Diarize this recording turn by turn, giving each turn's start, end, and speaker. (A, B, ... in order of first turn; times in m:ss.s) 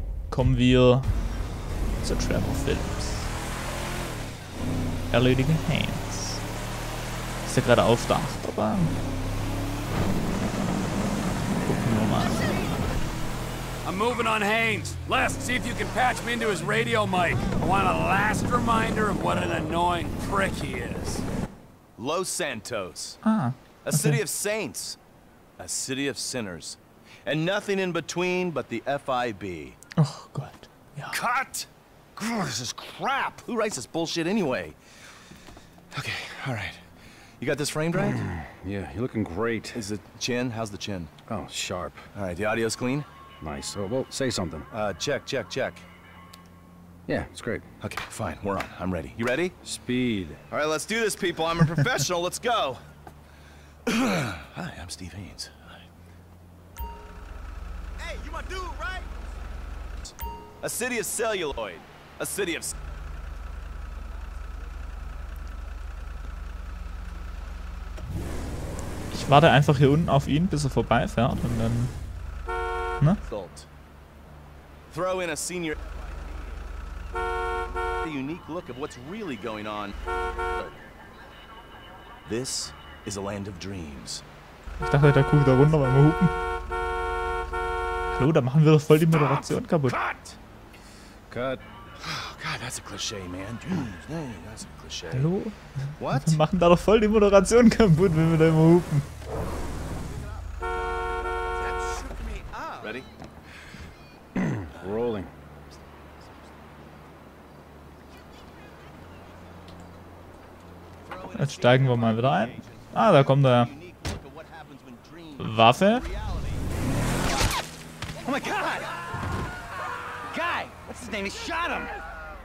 0:00.3-0:01.1 A
0:02.0-0:03.3 A
0:05.1-0:06.4 A
0:07.4-0:09.0 A
0:11.6-0:12.4 A
0:13.8-0:21.2 B
0:22.0-0:23.2 C
0:23.2-0:24.2 A
0:23.8-0:25.0 C
0:25.6-0:29.8 C
0:30.0-0:31.2 A
0:31.1-0:31.7 C
0:33.2-0:34.8 C
0:35.9-0:36.8 C
0:37.4-0:38.3 C
0:38.4-0:39.8 D
0:39.7-0:41.1 C
0:41.3-0:42.1 D
0:42.1-0:43.1 C
0:43.4-0:44.6 D
0:44.7-0:45.8 C
0:47.0-0:47.7 D
0:47.8-0:49.5 C
0:49.6-0:50.4 D
0:50.5-0:52.8 C
0:53.9-0:55.8 C
0:58.1-0:59.0 C
1:00.1-1:02.8 C
1:09.1-1:11.9 A
1:13.2-1:13.7 C
1:14.9-1:16.0 C
1:18.0-1:19.9 C
1:22.2-1:24.2 C
1:24.8-1:26.3 A
1:28.1-1:30.0 A
1:31.3-1:31.6 D
1:32.0-1:35.3 C
1:35.1-1:39.1 A
1:36.0-1:36.4 C
1:40.8-1:41.9 C
1:42.6-1:43.0 C
1:44.4-1:45.3 D
1:44.7-1:45.0 C
1:51.0-1:56.6 C
1:51.3-1:53.7 A
1:55.4-1:56.0 A
1:58.2-1:58.9 E
2:00.3-2:01.9 E